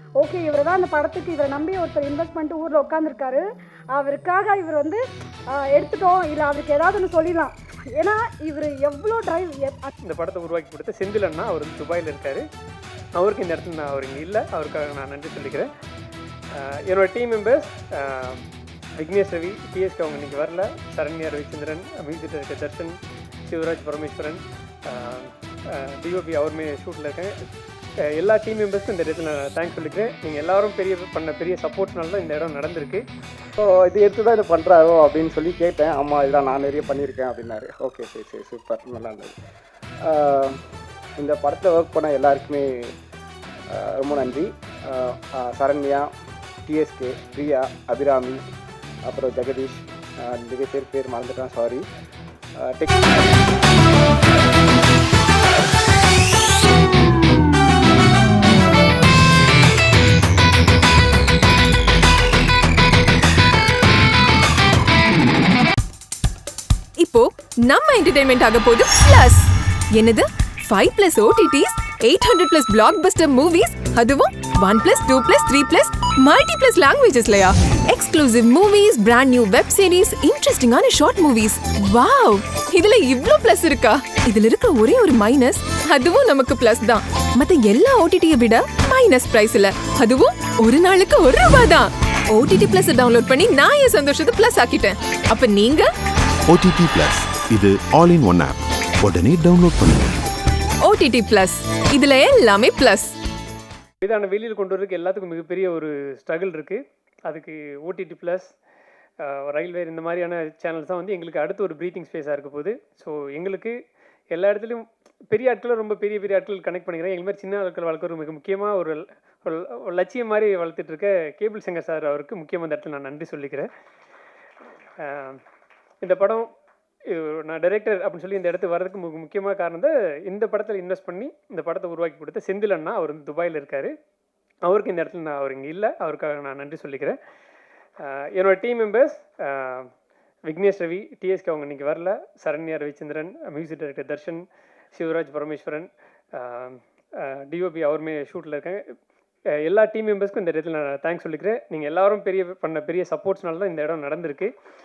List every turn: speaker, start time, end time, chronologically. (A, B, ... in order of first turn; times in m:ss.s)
0:00.2-0:09.9 A
0:10.0-0:12.4 B
0:13.2-0:15.7 B
0:16.6-0:18.4 B
0:19.0-0:27.3 B
0:28.1-0:33.1 B
0:33.6-0:39.4 C
0:40.0-0:40.6 C
0:41.2-0:42.9 C
0:43.7-0:46.1 C
0:46.7-0:48.4 C
0:49.0-0:51.9 C
0:52.6-0:53.4 C
1:07.0-1:09.4 D
1:10.0-1:13.1 D
1:13.6-1:15.0 D
1:15.9-1:18.4 D
1:21.5-1:24.4 D
1:25.1-1:26.1 D
1:26.7-1:35.9 D
1:36.5-1:40.2 E
1:40.8-1:43.2 D
1:44.0-1:48.5 B
1:49.2-1:53.8 B
1:54.3-2:03.7 B
2:05.0-2:05.4 B
2:06.0-2:06.5 B
2:07.1-2:13.9 B
2:14.6-2:17.2 B
2:18.0-2:19.9 B
2:20.5-2:28.8 B
2:29.6-2:34.5 B